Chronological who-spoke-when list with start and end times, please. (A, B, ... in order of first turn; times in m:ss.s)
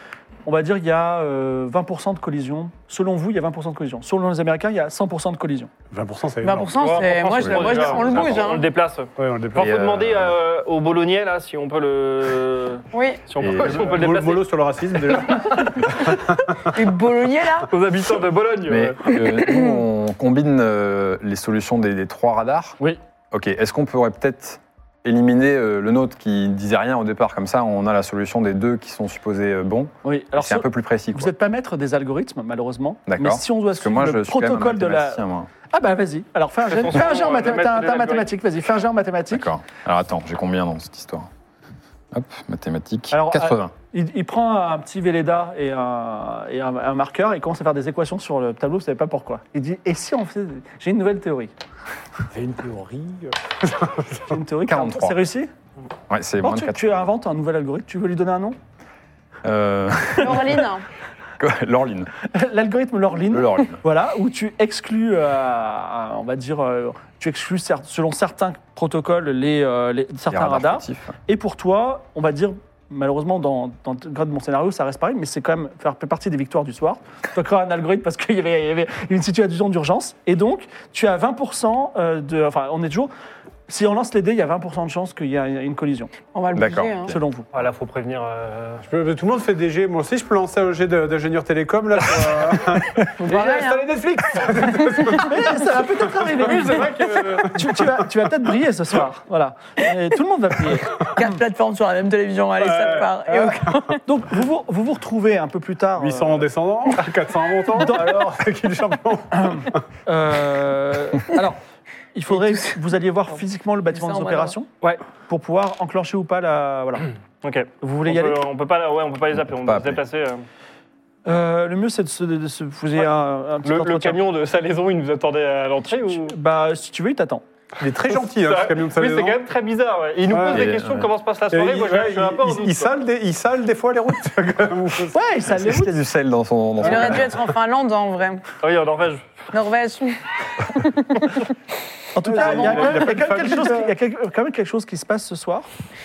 0:00.4-0:05.7 A
0:05.9-0:06.7 B
0:06.4-0:08.7 C
0:06.8-0:14.5 D
0:07.4-0:08.3 E
0:09.2-0:09.7 B
0:09.6-0:10.4 E
0:12.9-0:13.2 C
0:13.4-0:13.9 E
0:13.6-0:16.7 B
0:16.7-0:17.7 C
0:17.7-0:19.1 D
0:18.6-0:22.8 E
0:19.2-0:19.8 C
0:23.3-0:31.3 E
0:30.0-0:39.4 A
0:33.1-0:35.5 E
0:36.7-0:38.3 D
0:39.3-0:41.3 E
0:42.1-0:43.7 E
0:43.1-0:51.5 A
0:52.3-0:54.2 B
0:54.3-0:55.5 A
0:54.6-0:55.2 E
0:56.1-0:57.1 E
0:56.4-0:58.6 A
0:59.4-1:00.6 E
1:00.2-1:00.8 C
1:01.4-1:02.1 E
1:02.3-1:23.1 A
1:03.3-1:03.8 E
1:10.3-1:11.2 E
1:23.7-1:26.1 A
1:26.3-1:27.1 C
1:26.5-1:27.2 E
1:27.1-1:27.5 A
1:27.5-1:28.8 D
1:28.9-1:38.1 B
1:33.2-1:33.9 C
1:35.2-1:36.8 A
1:36.2-1:37.6 D
1:37.4-1:41.0 A
1:41.1-1:44.0 C
1:42.6-1:43.9 B
1:44.0-1:46.5 A
1:46.0-1:49.8 B
1:47.8-1:48.2 A
1:49.3-1:51.6 A
1:52.1-1:57.1 A
1:53.9-1:54.5 C
1:57.4-2:00.4 D
1:57.8-1:58.4 A
1:59.3-2:00.0 E
2:01.3-2:04.2 A
2:03.6-2:06.3 D
2:06.1-2:07.4 A
2:07.8-2:09.4 B
2:08.1-2:12.9 D
2:10.3-2:10.7 B
2:10.5-2:11.1 E
2:11.5-2:15.2 B
2:15.1-2:16.0 A
2:15.5-2:17.4 E
2:16.8-2:18.4 C
2:18.6-2:19.3 D
2:19.5-2:21.4 C
2:22.1-2:25.7 A
2:22.3-2:23.9 B
2:22.3-2:23.1 C